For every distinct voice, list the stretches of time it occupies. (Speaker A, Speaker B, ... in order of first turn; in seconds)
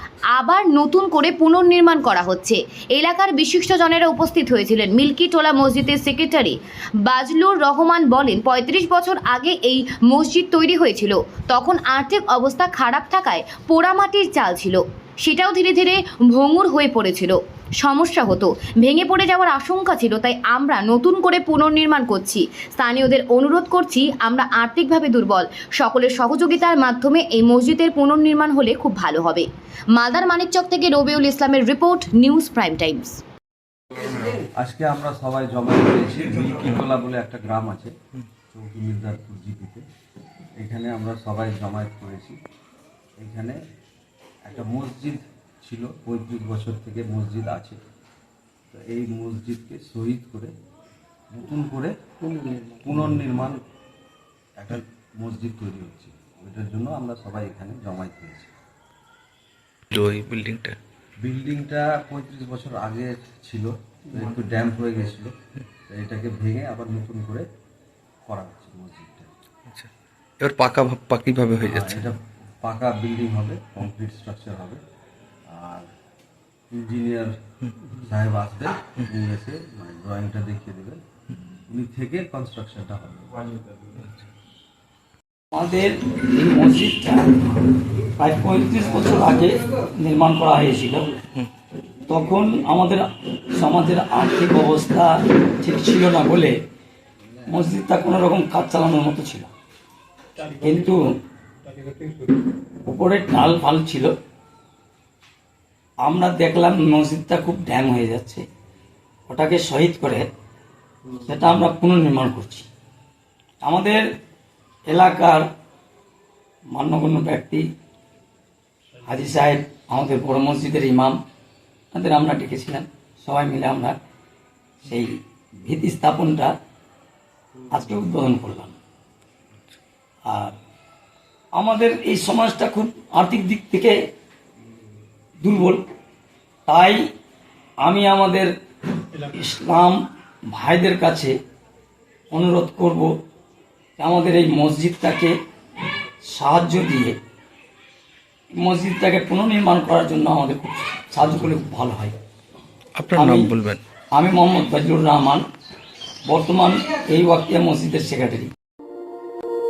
Speaker A: 0.3-33.2
Speaker B: 34.2-37.9, 38.5-39.8, 40.6-42.4, 43.2-43.6, 44.4-47.8, 48.7-50.5, 51.3-51.9, 52.8-53.6, 54.6-58.5, 61.2-65.3, 65.9-67.5, 68.3-69.3, 71.6-74.8, 75.5-75.9, 76.7-77.3, 77.9-81.0, 81.7-83.3
Speaker C: 59.9-60.8, 70.4-72.1, 84.0-84.2, 152.9-153.8
Speaker D: 85.5-87.4, 88.2-91.2, 92.1-96.6, 97.5-99.5, 100.4-101.2, 102.8-104.1, 106.1-108.4, 109.3-110.3, 111.2-112.7, 113.7-114.0, 114.9-115.5, 116.7-117.7, 119.0-121.2, 121.9-124.0, 124.8-126.5, 127.7-128.8, 130.3-130.6, 131.6-134.0, 135.4-135.8, 136.7-137.0, 137.8-138.5, 139.2-140.0, 140.5-141.3, 142.3-143.1, 144.0-145.3, 146.3-147.2, 148.6-152.2, 153.1-153.5, 154.2-155.4, 156.2-158.5